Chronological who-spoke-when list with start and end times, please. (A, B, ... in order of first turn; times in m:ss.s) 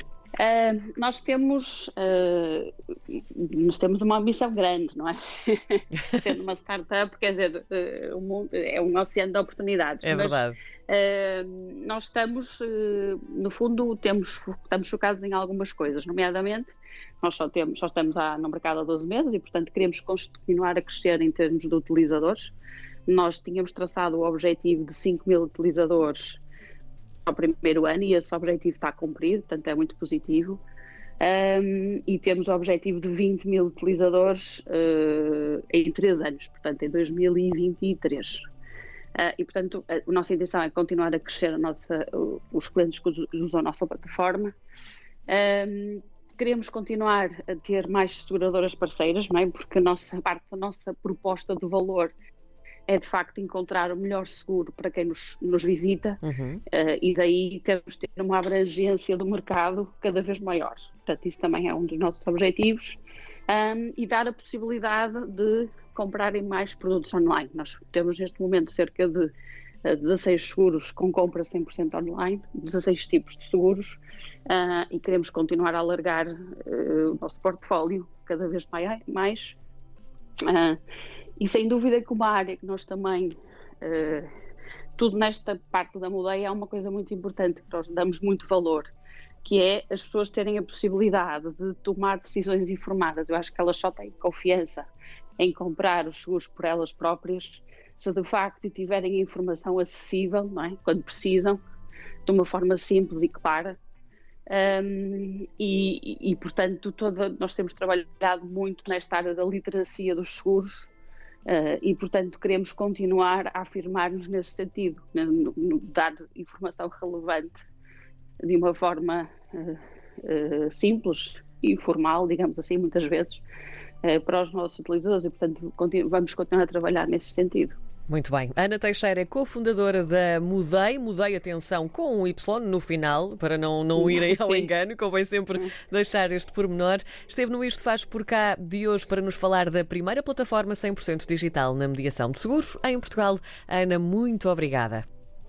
0:00.4-0:22.5 A
0:10.0-0:10.6 B
0:23.1-0:26.4 A
0:27.2-0:30.6 A
0:31.2-0:38.4 A
0:39.2-0:44.5 A
0:45.3-0:52.1 A
0:52.9-1:09.3 A
0:56.2-0:56.6 B
1:09.8-1:19.6 A
1:20.4-1:20.8 A
1:21.4-1:24.3 A
1:25.0-1:28.9 A
1:29.4-1:34.9 A
1:35.4-1:41.6 A
1:42.3-1:43.8 A
1:44.5-1:50.9 A
1:51.5-1:57.6 A
1:58.4-2:03.4 A
2:04.0-2:07.8 A
2:08.1-2:25.0 B
2:14.0-2:14.7 A